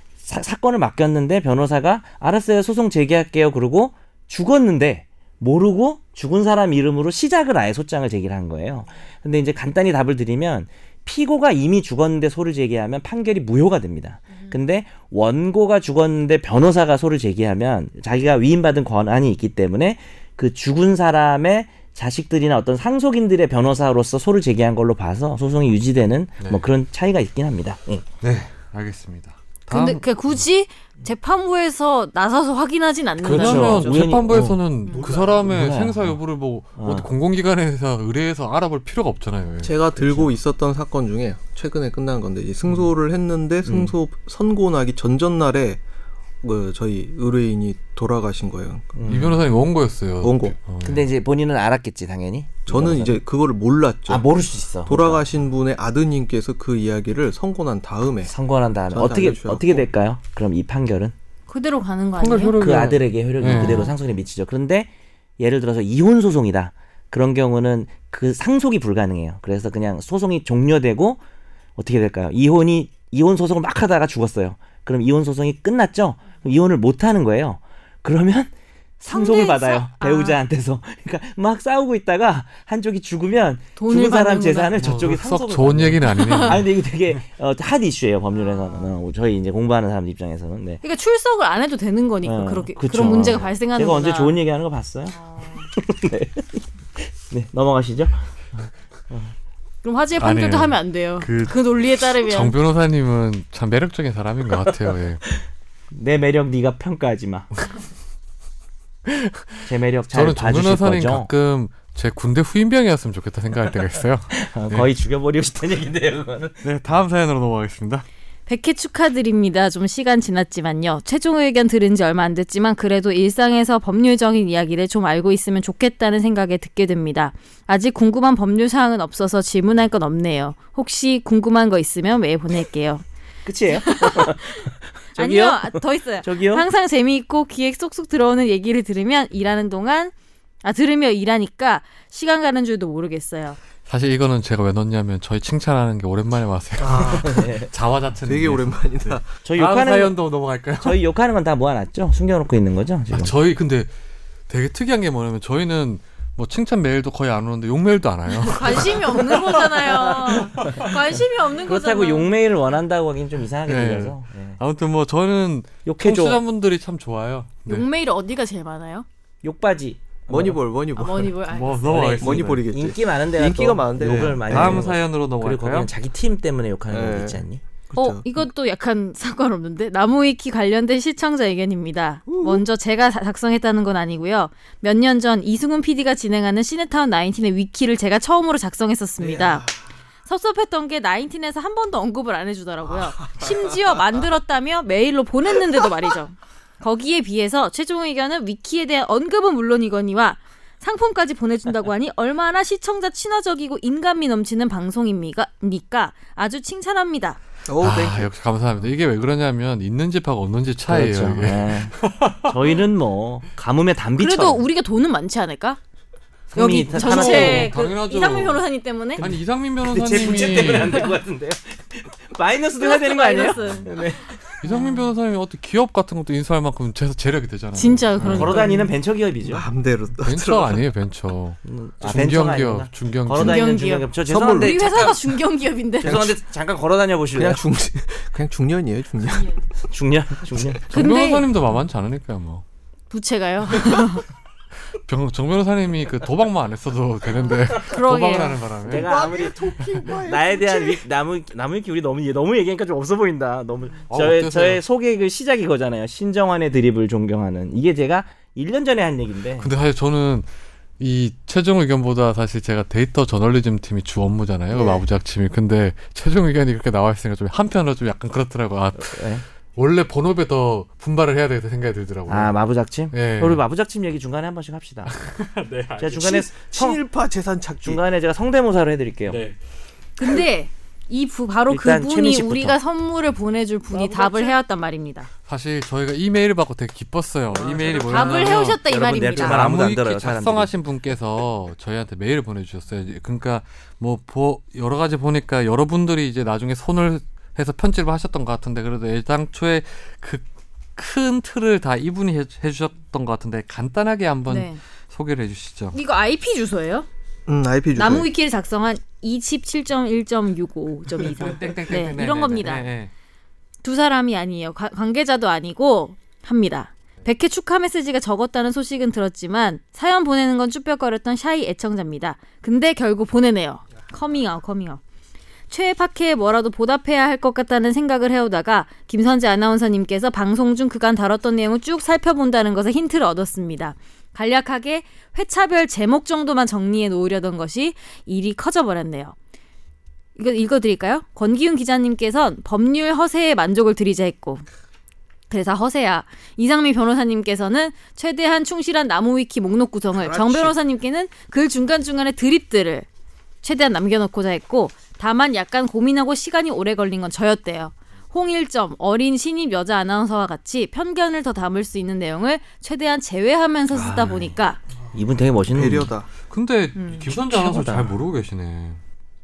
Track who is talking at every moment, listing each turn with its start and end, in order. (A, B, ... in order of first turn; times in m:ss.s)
0:00.2-0:28.1 A
0:28.2-0:30.0 B
0:29.7-0:34.1 C
0:33.2-0:36.2 A
0:33.2-0:39.7 B
0:34.8-0:35.2 C
0:36.8-0:37.1 A
0:39.6-0:45.8 D
0:40.0-0:40.3 A
0:43.6-0:43.9 A
0:46.4-0:48.9 D
0:48.9-0:49.4 A
0:49.1-0:51.1 B
0:50.2-0:50.6 D
0:50.8-0:53.2 A
0:52.7-0:54.3 D
0:54.1-0:55.2 A
0:54.8-0:58.3 D
0:58.2-1:01.1 A
0:58.9-0:59.8 D
1:01.5-1:02.6 C
1:02.2-1:03.9 B
1:02.6-1:11.2 A
1:03.5-1:03.9 C
1:11.8-1:30.8 A
1:19.1-1:20.4 C
1:23.8-1:24.7 C
1:24.8-1:26.7 B
1:26.1-1:26.5 C
1:28.3-1:28.9 C
1:30.8-1:34.3 C
1:32.2-1:35.2 A
1:35.1-1:35.7 C
1:35.7-1:39.3 A
1:39.8-1:42.5 C
1:40.2-1:45.2 B
1:45.9-1:47.5 A
1:49.0-1:49.4 B
1:49.6-1:51.3 A
1:50.1-1:54.9 B
1:54.3-1:56.6 A
1:56.6-1:58.0 B
1:58.5-2:13.0 C
2:13.4-2:16.6 A
2:13.8-2:20.1 C
2:20.6-2:23.6 C
2:23.9-2:31.0 B
2:26.8-2:27.5 D
2:27.2-2:27.7 A
2:28.2-2:29.2 D
2:29.4-2:30.2 A
2:30.8-2:33.3 A
2:33.1-2:33.9 B
2:34.5-2:40.9 B
2:38.4-2:42.3 C
2:40.4-2:44.6 A
2:43.6-2:47.8 B
2:45.8-2:46.4 A
2:47.6-2:49.0 C
2:49.4-2:50.6 A
2:50.3-2:51.4 D
2:51.0-2:52.1 C
2:51.5-2:52.7 B
2:51.8-2:57.6 A
2:52.2-2:54.8 D
2:54.0-2:55.9 B
2:56.9-2:58.5 D
2:57.9-3:09.6 C
3:02.3-3:02.6 D
3:10.2-3:27.4 C
3:27.7-3:28.3 D
3:27.8-3:32.5 B
3:30.9-3:34.6 A
3:34.2-3:35.8 C
3:36.5-3:37.7 A
3:36.5-3:39.2 C
3:36.9-3:38.6 B
3:39.2-3:41.1 B
3:39.2-3:44.6 A
3:40.6-3:41.1 C
3:42.8-3:44.0 C
3:44.6-3:48.5 B
3:44.6-3:45.1 C
3:47.8-3:48.9 C
3:48.2-3:48.7 D
3:48.2-3:49.6 A
3:49.4-3:50.8 D
3:50.2-3:53.6 B
3:51.6-3:55.2 A
3:53.4-3:56.2 C
3:54.2-3:55.1 D
3:56.0-3:56.4 D
3:56.0-3:57.6 A
3:57.4-3:59.6 D
3:59.9-4:00.8 A
4:00.9-4:02.6 B
4:00.9-4:01.5 C
4:03.1-4:04.2 C
4:05.0-4:09.1 B
4:07.7-4:08.6 C
4:08.8-4:19.7 A
4:08.9-4:11.0 D
4:14.1-4:14.8 B
4:19.6-4:20.5 B
4:21.0-4:32.6 B
4:24.7-4:25.0 A
4:28.9-4:29.4 A
4:32.3-4:35.1 A
4:33.1-4:33.6 B
4:35.0-4:36.4 B
4:36.0-4:37.0 A
4:36.2-4:38.0 D
4:37.8-4:39.4 A
4:39.3-4:39.6 B
4:40.2-4:45.3 C
4:41.7-4:42.8 A
4:43.9-4:44.5 D
4:45.4-4:48.8 B
4:47.5-4:48.5 D
4:48.0-4:49.6 C
4:48.8-4:50.7 A
4:49.3-5:00.4 B
5:01.0-5:06.0 B
5:04.5-5:04.8 C
5:05.9-5:07.0 C
5:07.5-5:08.3 D
5:07.9-5:12.9 C
5:11.2-5:13.1 B
5:13.8-5:25.0 C
5:25.7-5:39.3 C
5:40.4-5:44.6 C
5:45.5-5:53.0 C
5:50.2-5:50.7 D
5:53.6-6:04.8 C
6:03.9-6:04.6 A
6:05.1-6:06.1 A
6:05.7-6:06.3 D
6:06.5-6:09.0 B
6:07.0-6:07.2 C
6:07.3-6:08.2 A